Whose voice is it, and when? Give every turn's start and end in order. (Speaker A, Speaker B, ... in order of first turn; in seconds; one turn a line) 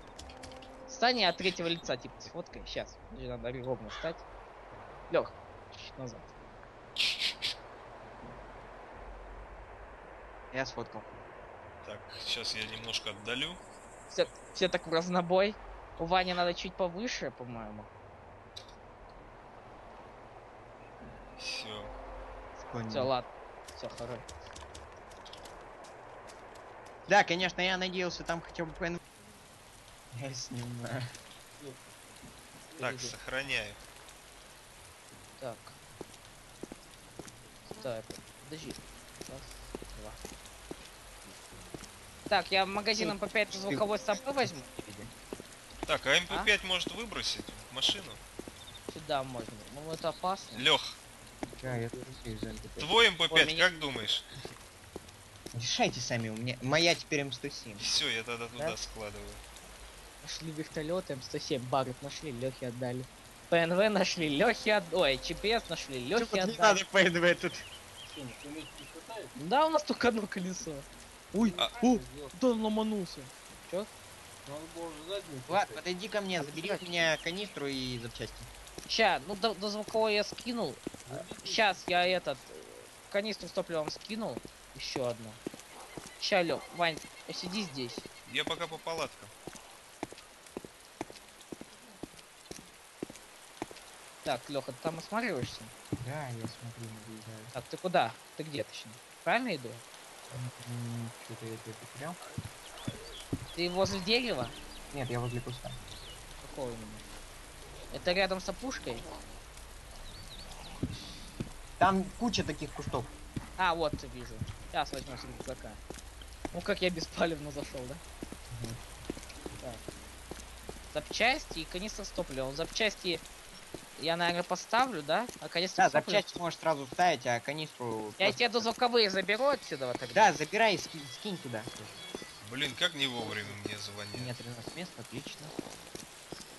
Speaker A: 0.9-4.2
Speaker A: 5.1-6.3
Speaker B: 10.5-11.1
Speaker C: 11.8-13.6
Speaker A: 14.1-17.9
Speaker C: 21.4-21.9
Speaker B: 22.6-23.1
Speaker A: 22.9-24.2
Speaker B: 27.1-29.0
Speaker B: 30.1-31.1
Speaker C: 32.8-33.8
Speaker A: 35.4-35.8
Speaker A: 37.7-40.2
Speaker A: 42.3-44.5
Speaker B: 43.0-45.1
Speaker C: 45.9-48.2
Speaker A: 48.9-50.7
Speaker C: 50.5-51.0
Speaker B: 51.6-52.9
Speaker C: 52.8-54.2
Speaker A: 53.3-53.6
Speaker B: 55.5-57.8
Speaker C: 57.8-59.4
Speaker A: 60.2-66.8
Speaker B: 66.1-68.4
Speaker A: 69.3-73.9
Speaker C: 71.6-71.8
Speaker B: 75.5-78.5
Speaker A: 76.4-76.8
Speaker A: 78.9-85.4
Speaker A: 86.2-88.0
Speaker C: 88.2-89.3
Speaker A: 94.2-95.7
Speaker B: 96.0-97.5
Speaker A: 97.5-99.8
Speaker B: 100.3-102.2
Speaker A: 103.5-104.5
Speaker B: 104.9-105.8
Speaker A: 106.4-107.0
Speaker A: 107.9-109.0
Speaker B: 111.8-113.1
Speaker A: 113.6-115.8
Speaker A: 116.5-118.0
Speaker B: 118.5-118.8
Speaker A: 120.9-123.2
Speaker A: 124.0-126.4
Speaker B: 125.8-128.6
Speaker A: 128.2-130.3
Speaker B: 130.1-131.8
Speaker C: 132.4-134.3
Speaker B: 133.2-133.6
Speaker B: 134.1-135.5